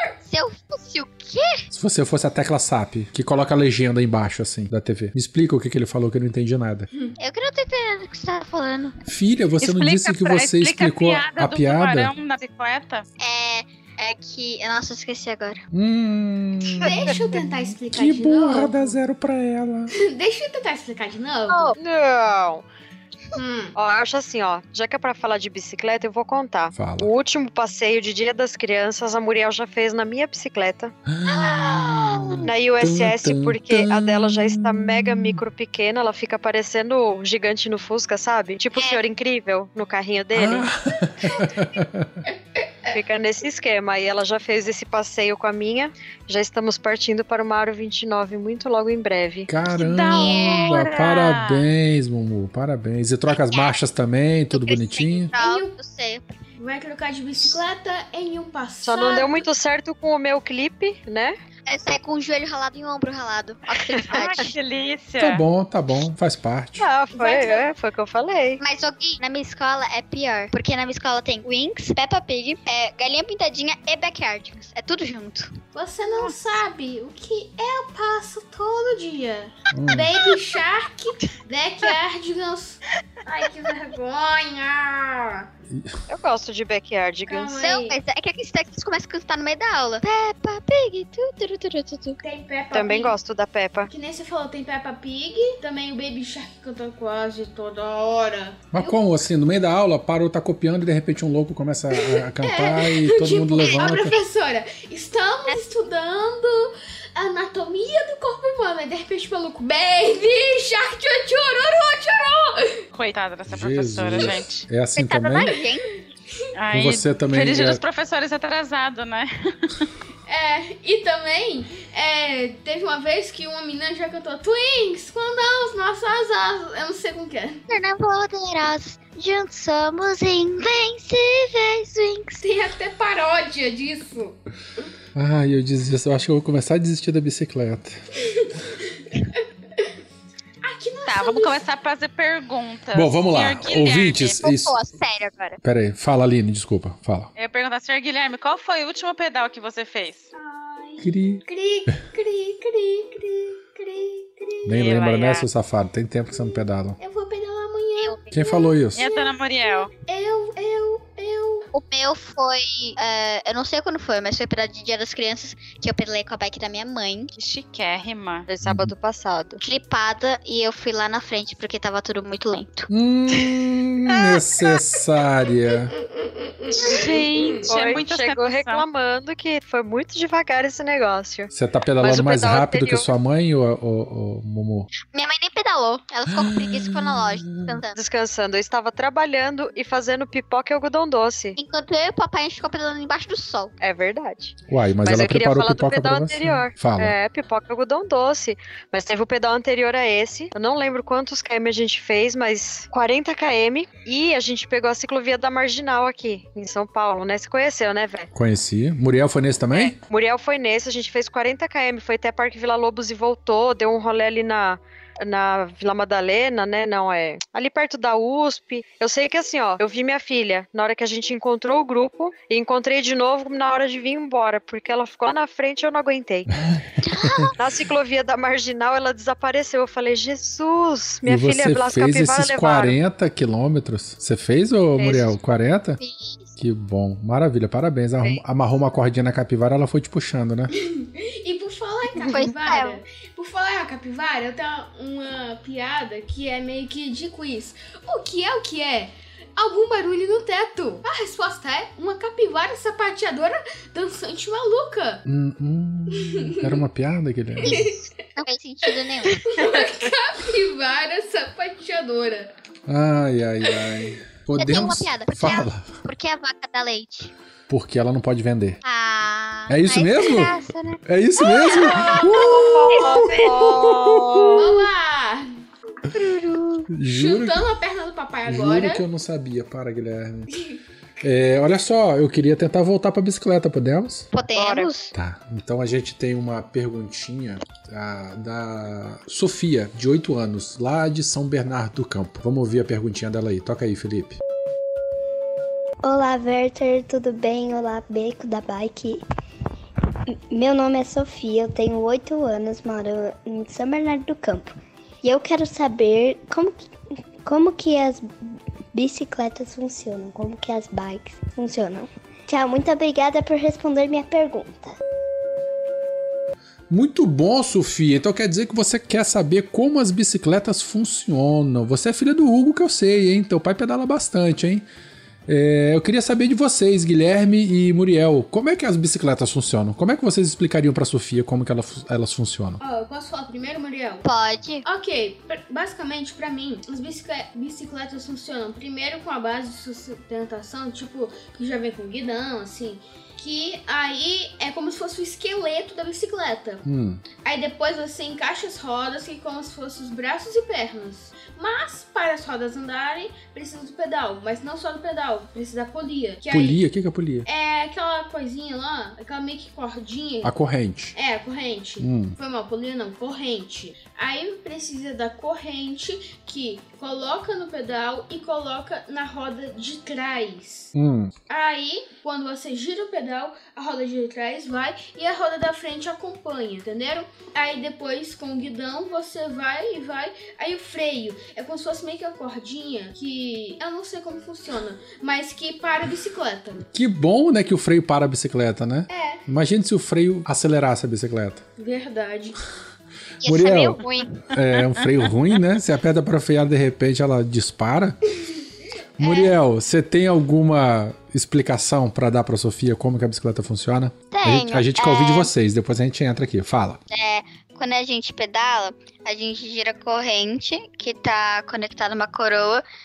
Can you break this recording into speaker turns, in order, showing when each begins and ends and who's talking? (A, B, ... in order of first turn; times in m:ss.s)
0:00.2-0:01.6 A
0:01.7-0:06.9 B
0:07.2-0:09.0 A
0:09.0-0:12.1 B
0:09.6-0:13.0 C
0:13.2-0:15.6 A
0:15.7-0:19.9 B
0:16.8-0:19.0 D
0:16.8-0:17.1 A
0:19.9-0:21.7 D
0:21.5-0:21.8 A
0:21.8-0:22.6 E
0:23.3-0:23.7 D
0:23.7-0:30.9 E
0:26.7-0:27.1 B
0:31.1-0:35.4 B
0:31.5-0:32.1 A
0:32.4-0:40.7 E
0:38.7-0:39.0 A
0:40.3-0:42.2 B
0:42.9-0:49.5 E
0:49.5-0:55.3 B
0:49.7-0:51.6 C
0:50.0-0:50.8 A
0:53.3-0:53.7 A
0:54.5-0:56.3 A
0:55.3-0:55.7 D
0:56.6-0:59.4 D
0:58.8-1:01.4 E
1:01.7-1:04.5 A
1:03.8-1:04.2 E
1:04.1-1:05.4 C
1:05.2-1:06.9 B
1:06.8-1:08.6 E
1:07.1-1:07.6 D
1:08.6-1:15.5 A
1:15.7-1:25.5 D
1:19.7-1:20.1 B
1:25.7-1:26.0 B
1:26.1-1:27.7 E
1:27.3-1:28.0 D
1:27.6-1:32.2 A
1:32.2-1:33.2 D
1:32.7-1:33.9 E
1:33.9-1:39.0 D
1:38.7-1:44.2 B
1:41.9-1:52.8 D
1:52.9-1:54.7 C
1:53.5-1:55.5 B
1:55.0-1:55.8 A
1:56.5-1:59.8 C
1:56.7-1:57.8 B
2:00.3-2:07.6 D
2:07.7-2:12.4 A
2:12.4-2:14.4 D
2:15.1-2:18.1 B
2:18.3-2:18.8 D
2:19.3-2:19.9 D
2:20.6-2:21.6 D
2:21.1-2:24.5 C
2:22.9-2:24.8 B
2:24.4-2:25.6 A
2:25.6-2:27.3 B
2:27.4-2:30.3 C
2:30.3-2:34.7 D
2:31.0-2:31.4 B
2:34.6-2:37.0 B
2:34.7-2:35.4 C
2:37.0-2:41.7 D
2:38.3-2:39.0 B
2:38.9-2:39.9 C
2:41.7-2:47.3 A
2:47.4-2:48.5 C
2:48.5-2:49.6 E
2:48.6-2:48.9 B
2:49.6-2:52.9 A
2:52.9-2:55.9 B
2:56.6-2:57.6 D
2:56.7-2:58.8 C
2:57.6-3:03.1 E
3:01.5-3:04.9 B
3:05.0-3:08.0 A
3:06.3-3:07.8 B
3:07.9-3:11.6 E
3:11.6-3:13.7 A
3:13.8-3:28.3 E
3:14.7-3:17.1 B
3:28.3-3:30.0 B
3:29.7-3:46.5 E
3:46.6-3:47.5 B
3:47.0-3:47.6 A
3:47.6-3:53.0 E
3:51.2-3:56.0 B
3:55.0-3:55.4 E
3:56.0-3:56.5 A
3:56.6-4:00.7 B
4:00.7-4:15.2 D
4:02.2-4:03.0 A
4:15.2-4:17.8 B
4:16.1-4:16.8 D
4:17.6-4:18.0 D
4:17.6-4:19.6 A
4:19.4-4:22.5 D
4:22.9-4:26.0 B
4:24.6-4:27.3 A
4:27.7-4:28.8 B
4:28.8-4:31.0 A
4:29.7-4:33.1 B
4:31.6-4:32.0 A
4:31.7-4:32.7 D
4:32.0-4:34.7 E
4:32.9-4:33.4 A
4:33.6-4:34.6 B
4:34.5-4:35.5 D
4:36.1-4:36.9 A
4:36.9-4:37.7 B
4:37.1-4:39.0 D
4:38.5-4:40.5 B
4:41.2-4:44.3 B
4:44.3-4:45.1 A
4:44.6-4:44.9 E
4:45.1-4:54.4 B
4:56.0-4:59.2 F
5:00.3-5:06.9 F
5:07.4-5:08.3 F
5:08.9-5:14.8 F
5:16.9-5:24.8 B
5:25.5-5:32.8 B
5:32.8-5:34.2 D
5:34.2-5:34.8 A
5:34.8-5:46.8 D
5:46.8-5:47.2 B
5:47.4-5:56.8 D
5:56.5-5:57.5 B
5:57.4-6:00.5 D
6:00.4-6:01.2 B
6:01.1-6:10.9 D
6:02.0-6:02.4 B
6:10.9-6:11.3 B
6:11.5-6:26.8 D
6:26.9-6:31.6 B
6:29.1-6:29.4 D
6:31.8-6:32.6 D
6:33.4-6:34.5 A
6:33.4-6:38.2 B
6:39.2-6:47.0 B
6:44.3-6:45.5 A
6:47.1-6:52.8 A